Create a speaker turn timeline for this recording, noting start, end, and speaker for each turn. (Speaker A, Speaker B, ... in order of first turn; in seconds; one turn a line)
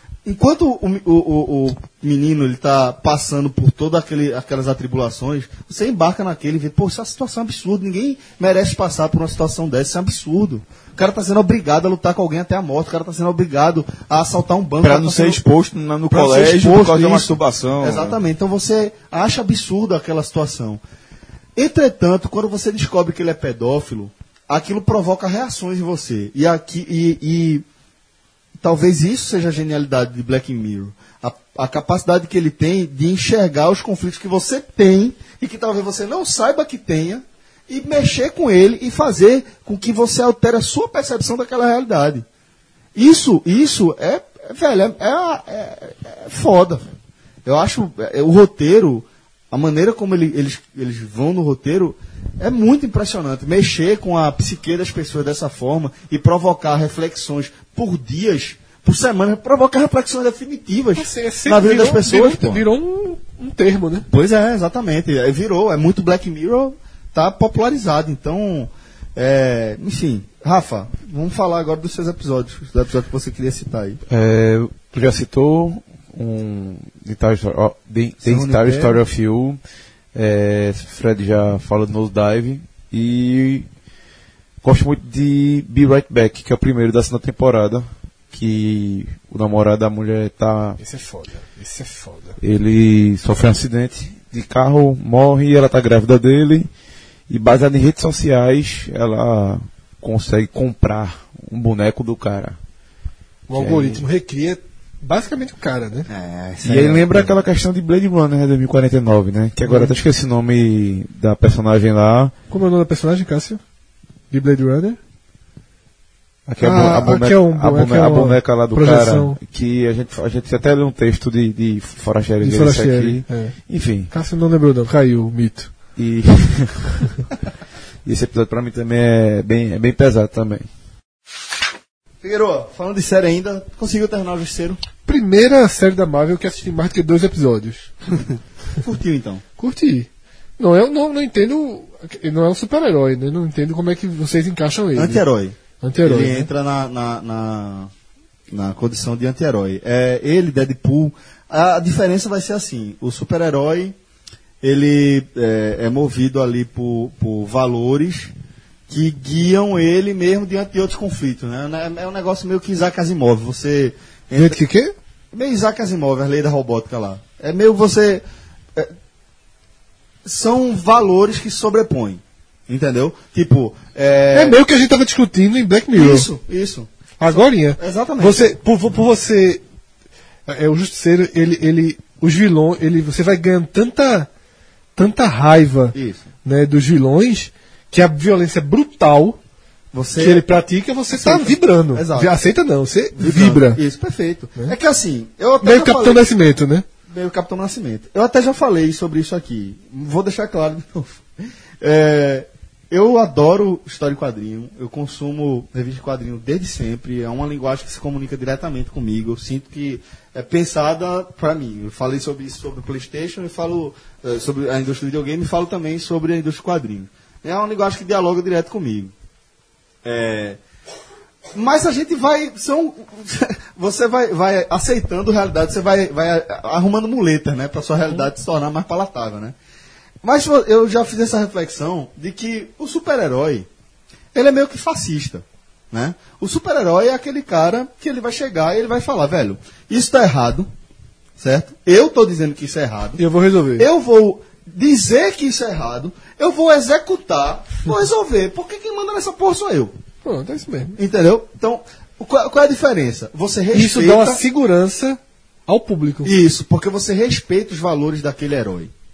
Speaker A: 0.2-15.4
Speaker B: 14.8-18.2
Speaker A: 16.1-20.8
Speaker A: 21.6-27.6
Speaker A: 28.6-42.3
Speaker A: 42.9-46.8
Speaker A: 47.4-62.6
Speaker C: 60.9-64.1
Speaker A: 64.1-74.0
Speaker D: 74.1-79.6
Speaker A: 78.2-79.0
Speaker D: 80.1-83.7
Speaker D: 84.6-90.8
Speaker C: 90.8-92.4
Speaker D: 92.4-96.7
Speaker D: 97.3-102.6
Speaker C: 103.5-106.1
Speaker D: 103.5-104.0
Speaker A: 106.1-107.4
Speaker D: 106.6-112.3
Speaker C: 109.6-109.9
Speaker C: 112.5-113.6
Speaker C: 114.3-115.0
Speaker D: 116.5-124.1
Speaker C: 116.6-119.4
Speaker C: 122.4-123.6
Speaker C: 124.1-125.7
Speaker D: 126.0-127.0
Speaker D: 128.1-130.7
Speaker A: 132.2-134.8
Speaker C: 135.1-137.9
Speaker A: 138.8-139.4
Speaker C: 139.6-145.2
Speaker A: 144.9-147.9
Speaker C: 145.8-146.5
Speaker A: 148.5-153.9
Speaker A: 154.6-158.3
Speaker A: 158.9-164.6
Speaker C: 164.3-164.9
Speaker A: 165.3-168.9
Speaker A: 170.2-174.6
Speaker C: 174.3-176.3
Speaker A: 175.9-176.9
Speaker C: 177.2-179.6
Speaker A: 177.8-178.6
Speaker C: 180.5-184.3
Speaker C: 184.9-189.4
Speaker A: 185.9-186.2
Speaker A: 189.9-190.4
Speaker C: 190.2-193.8
Speaker A: 191.1-192.3
Speaker A: 193.1-196.3
Speaker C: 195.6-196.8
Speaker A: 197.1-201.2
Speaker A: 201.8-219.1
Speaker A: 220.0-220.6
Speaker A: 221.5-229.6
Speaker A: 230.2-233.7
Speaker A: 234.3-240.7
Speaker A: 241.4-243.2
Speaker C: 243.2-243.9
Speaker A: 243.8-249.9
Speaker C: 250.2-251.0
Speaker A: 251.0-254.4
Speaker C: 253.7-256.3
Speaker A: 256.2-258.9